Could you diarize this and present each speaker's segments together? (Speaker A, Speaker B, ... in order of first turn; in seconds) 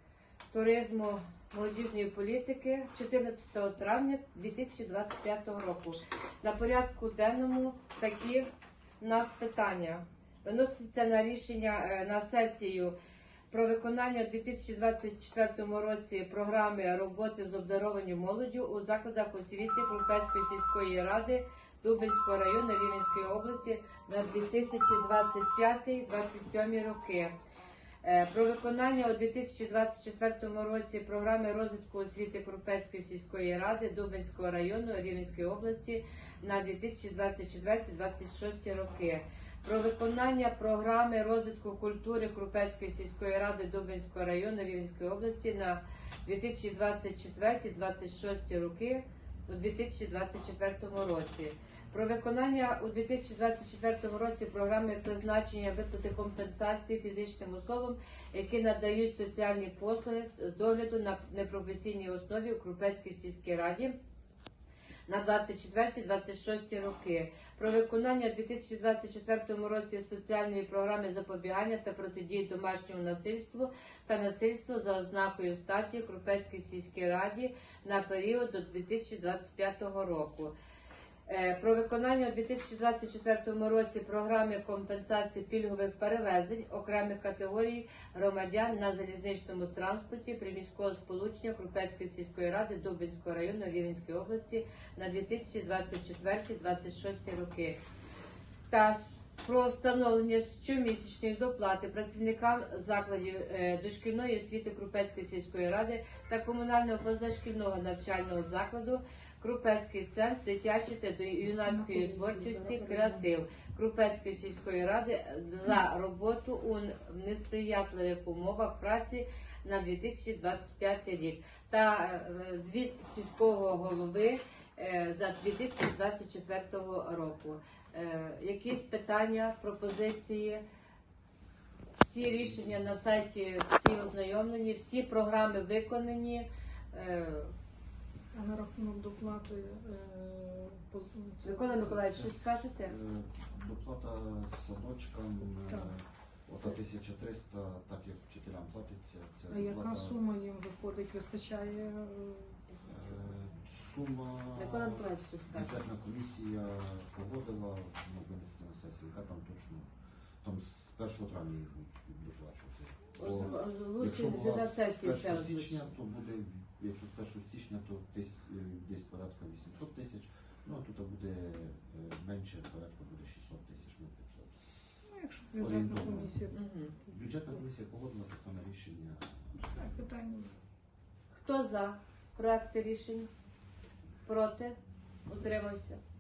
Speaker A: 0.5-8.5, 9.0-13.0, 13.5-27.4, 28.0-64.0, 65.1-80.5, 81.3-97.8, 98.7-130.6, 132.0-137.5, 141.4-143.0, 154.6-155.8, 163.2-166.0, 176.5-177.0, 181.4-183.3, 184.3-186.0
Speaker B: 111.6-113.1, 138.3-141.8, 145.7-145.9, 149.5-152.6, 175.1-176.6, 179.6-180.6
Speaker C: 141.7-150.2, 152.8-159.9, 160.4-174.5, 175.6-176.4, 177.1-179.7